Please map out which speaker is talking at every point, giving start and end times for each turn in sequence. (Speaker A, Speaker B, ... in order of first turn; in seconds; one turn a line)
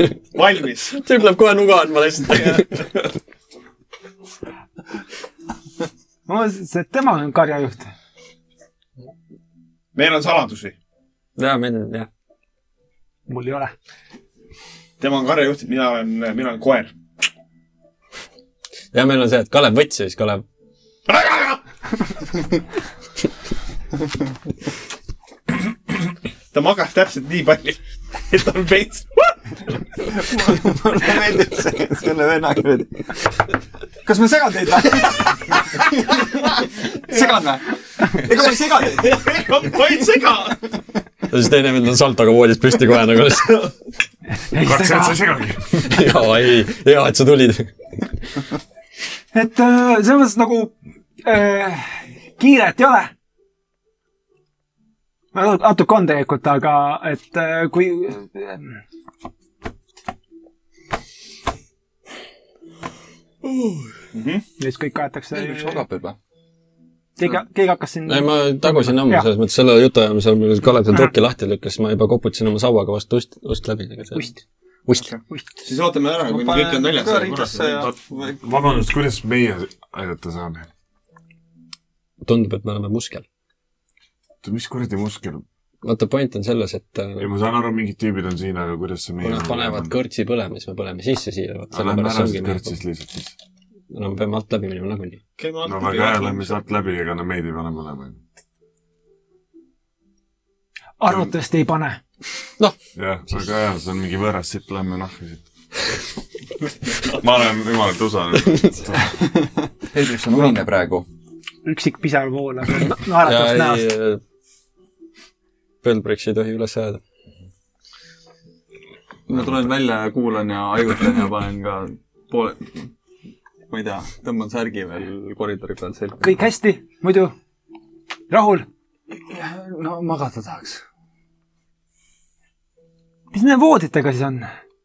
Speaker A: 0.3-1.1
Speaker B: 1.0-2.9
Speaker A: 2.3-2.7
Speaker C: 6.3-7.9
Speaker A: 9.9-10.8
Speaker B: 11.4-12.1
Speaker C: 13.3-13.7
Speaker A: 15.0-16.9
Speaker B: 18.9-20.4
Speaker A: 21.1-21.6
Speaker A: 26.5-29.4
Speaker D: 30.0-33.2
Speaker D: 34.1-35.2
Speaker D: 37.0-39.2
Speaker A: 38.8-40.6
Speaker B: 41.3-43.7
Speaker C: 44.4-45.2
Speaker E: 44.6-45.8
Speaker B: 45.7-47.7
Speaker C: 49.3-53.1
Speaker C: 55.3-58.8
Speaker A: 63.5-64.4
Speaker C: 64.6-65.8
Speaker F: 65.3-66.2
Speaker C: 67.2-69.3
Speaker B: 68.1-74.3
Speaker C: 74.1-74.4
Speaker C: 75.3-75.6
Speaker A: 75.6-77.7
Speaker D: 76.3-78.4
Speaker E: 77.7-80.7
Speaker B: 82.2-83.2
Speaker E: 84.4-85.4
Speaker B: 85.8-87.3
Speaker E: 87.2-89.9
Speaker B: 89.2-92.7
Speaker E: 91.7-93.3
Speaker B: 93.9-95.2
Speaker A: 95.4-96.6
Speaker E: 95.6-98.2
Speaker C: 101.0-102.0
Speaker E: 103.0-105.5
Speaker E: 107.0-109.2
Speaker F: 109.9-111.1
Speaker C: 111.7-113.9
Speaker B: 113.2-114.2
Speaker B: 115.8-117.0
Speaker D: 119.3-122.7
Speaker D: 123.7-126.3
Speaker C: 126.2-127.3
Speaker C: 128.3-128.7
Speaker D: 129.1-130.8
Speaker C: 133.3-134.5